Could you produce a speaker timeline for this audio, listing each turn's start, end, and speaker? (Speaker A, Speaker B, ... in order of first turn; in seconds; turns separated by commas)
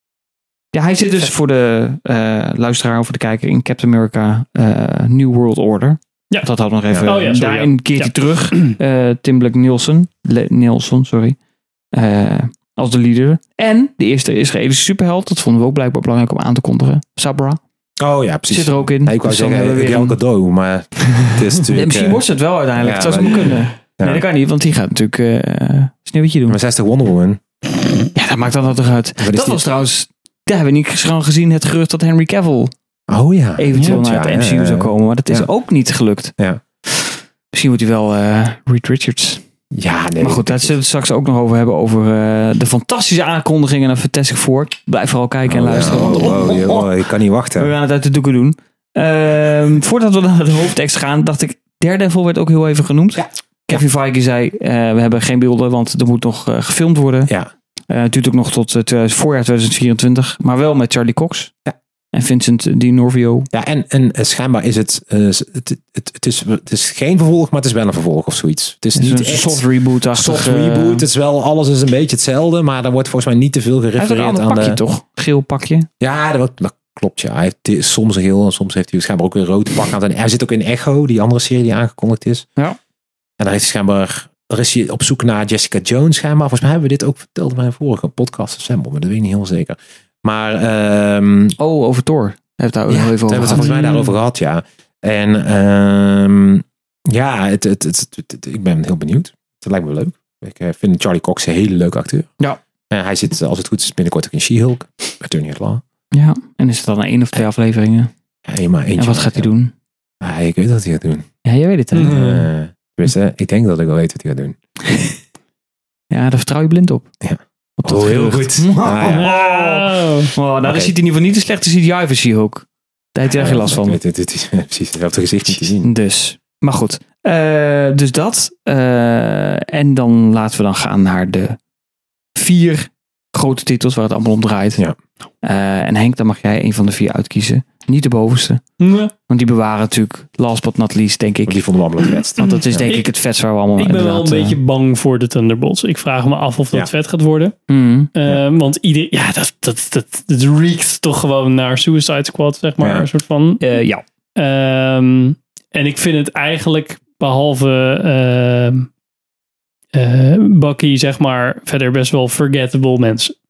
Speaker A: 0.7-11.4, Speaker B: 7.0-8.8, Speaker A: 11.9-17.6, Speaker C: 18.0-22.2, Speaker A: 18.5-20.2, Speaker A: 21.7-26.6, Speaker C: 22.8-24.2, Speaker C: 26.5-27.4, Speaker A: 28.1-32.7, Speaker C: 29.2-29.7, Speaker C: 33.1-35.5, Speaker A: 33.6-36.3, Speaker A: 36.9-39.4, Speaker C: 39.7-40.8, Speaker A: 40.2-46.9, Speaker C: 45.5-47.7, Speaker A: 47.6-57.3, Speaker C: 53.1-53.8, Speaker A: 57.9-61.5, Speaker A: 62.1-63.5, Speaker C: 63.5-74.8, Speaker A: 69.0-71.1, Speaker A: 74.0-75.9, Speaker C: 76.0-82.5, Speaker C: 83.4-91.6, Speaker A: 91.6-94.1, Speaker C: 92.9-102.3, Speaker C: 102.9-105.8, Speaker A: 106.1-108.1, Speaker C: 108.5-109.5, Speaker A: 109.0-109.7, Speaker C: 110.2-111.3, Speaker A: 111.5-112.2, Speaker B: 112.0-112.5, Speaker C: 112.0-114.6, Speaker A: 116.1-117.1, Speaker C: 117.2-119.3, Speaker A: 117.8-124.0, Speaker B: 119.0-120.3, Speaker C: 120.6-120.9, Speaker C: 123.3-125.9, Speaker A: 125.6-131.6, Speaker A: 132.4-134.8, Speaker A: 135.4-138.6, Speaker B: 138.8-139.1, Speaker A: 139.3-141.6, Speaker C: 141.5-142.9, Speaker A: 142.4-144.6, Speaker B: 142.4-143.1, Speaker B: 143.8-147.6, Speaker A: 147.7-148.1, Speaker B: 148.2-153.6, Speaker C: 152.8-153.1, Speaker A: 153.6-154.0, Speaker B: 154.4-158.9, Speaker B: 159.9-163.3